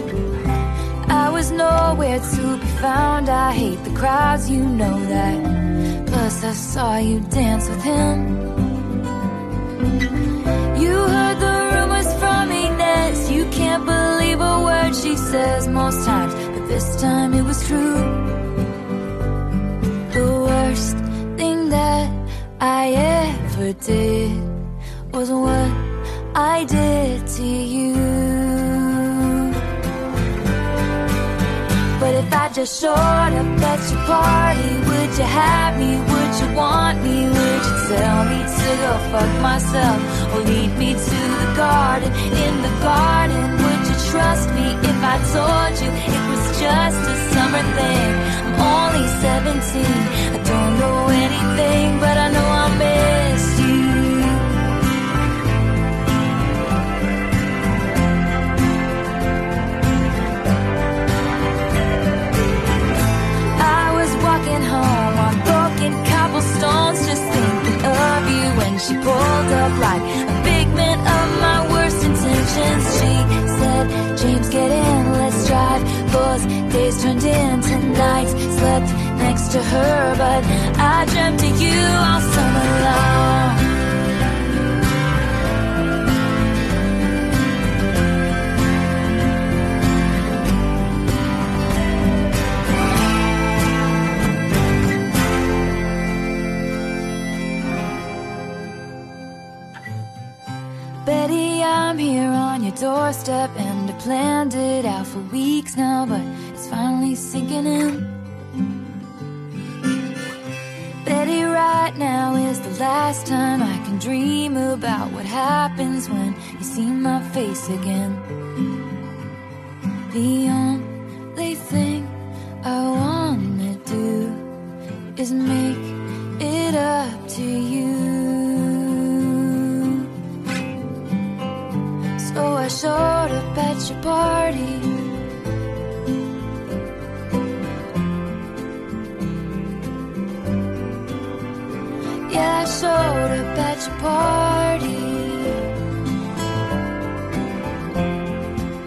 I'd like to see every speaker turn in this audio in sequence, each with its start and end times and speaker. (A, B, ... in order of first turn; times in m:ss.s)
0:01.1-0:05.5 A
0:06.0-0:08.4 A
0:10.7-0:18.3 A
0:20.1-0:24.5 A
0:25.1-0:29.6 A
0:32.0-0:54.4 A
1:03.6-1:23.6 A
1:41.0-1:48.1 A
1:51.0-1:58.2 A
2:00.1-2:04.4 A
2:05.2-2:10.1 A
2:12.2-2:15.0 A
2:22.3-2:25.7 A